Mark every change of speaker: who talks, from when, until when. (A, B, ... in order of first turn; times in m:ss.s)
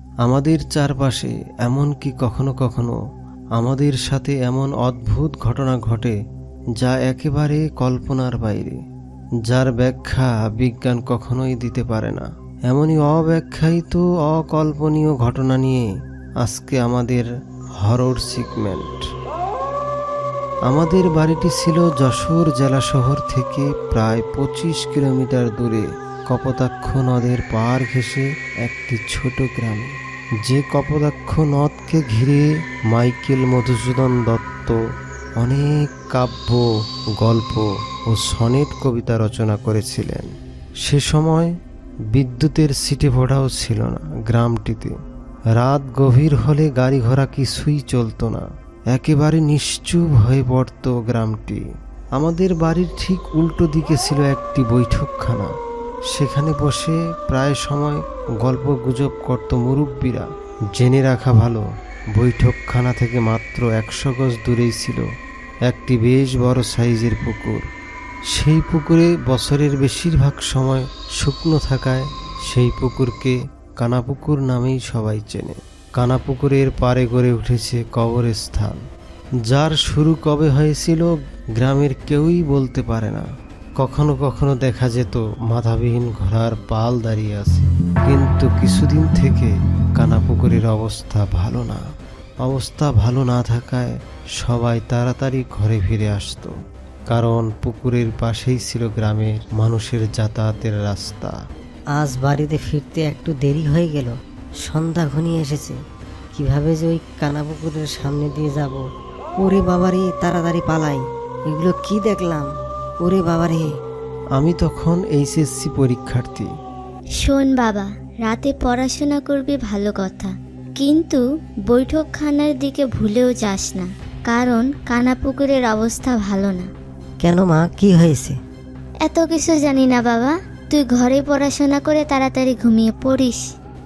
0:00.2-0:03.0 A
0:03.6-0:06.1 A
0:06.8-0:08.8 A
0:09.5-0:15.9 A
0:16.4-0:17.3 A
0:17.8-0:19.0 A
0:20.6-0:29.9 A
0:30.4-0:34.8 A
0:35.4-0:36.7 A
0:37.2-0:40.3 A
0:40.8-0:41.5 A
0:42.1-0:44.9 A
0:45.6-0:51.6 A
0:52.1-0:55.5 A
0:56.1-1:01.6 A
1:02.2-1:05.0 A
1:05.7-1:07.7 A
1:08.3-1:18.8 A
1:19.5-1:23.3 A
1:23.8-1:31.8 A
1:32.4-1:36.5 A
1:37.1-1:41.4 A
1:41.9-1:45.8 B
1:46.3-1:48.8 B
1:49.4-1:52.5 B
1:53.0-1:53.7 B
1:54.4-1:56.5 A
1:57.2-2:06.7 C
2:07.2-2:08.4 B
2:09.0-2:13.4 C